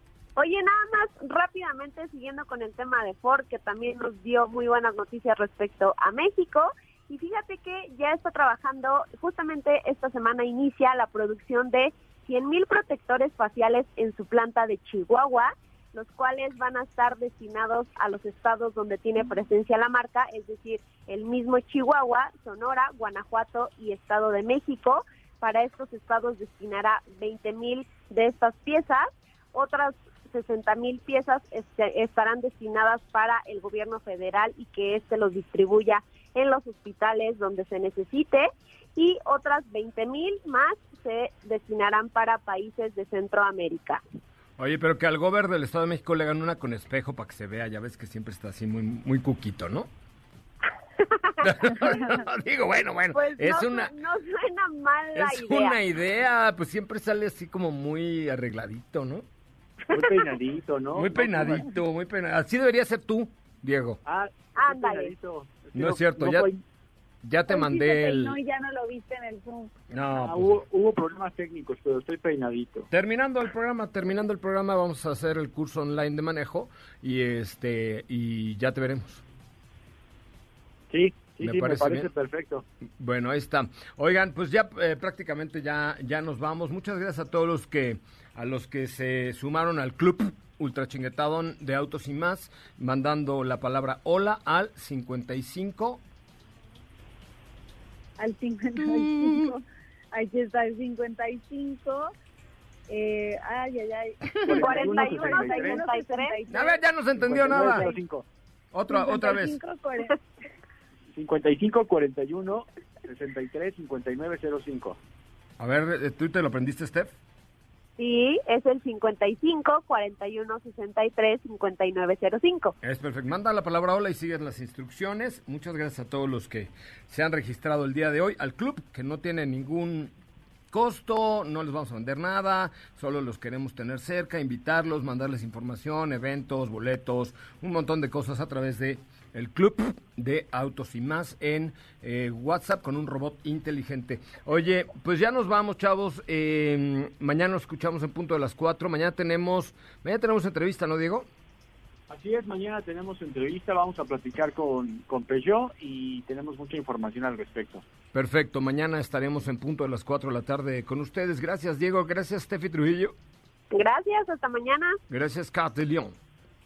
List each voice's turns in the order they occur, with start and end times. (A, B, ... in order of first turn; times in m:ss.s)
0:00.4-0:44.0 A
0:44.6-0:49.9 B
0:51.4-0:53.9 B
0:53.1-0:55.8 A
0:55.1-0:59.2 B
0:59.9-1:01.7 C
0:59.9-1:00.3 A
1:00.9-1:04.0 B
1:04.0-1:06.6 C
1:04.6-1:05.1 A
1:05.7-1:06.5 B
1:07.2-1:08.4 B
1:07.5-1:09.7 D
1:09.9-1:10.6 B
1:10.1-1:12.9 C
1:12.9-1:19.2 B
1:20.9-1:22.6 C
1:21.4-1:22.1 B
1:23.0-1:36.0 B
1:38.2-1:39.6 D
1:38.8-1:39.5 B
1:40.1-1:42.1 D
1:42.9-1:46.8 D
1:44.4-1:45.9 C
1:44.5-1:46.4 A
1:46.5-1:47.9 B
1:47.1-1:48.2 C
1:47.6-1:47.9 D
1:48.7-1:49.6 B
1:48.9-1:50.2 D
1:51.1-1:55.0 C
1:55.6-1:57.1 B
1:58.0-2:02.7 A
2:02.8-2:10.1 B
2:10.7-2:31.3 B
2:32.1-2:37.8 C
2:38.1-2:43.1 B
2:43.7-2:45.0 A
2:45.1-2:46.2 B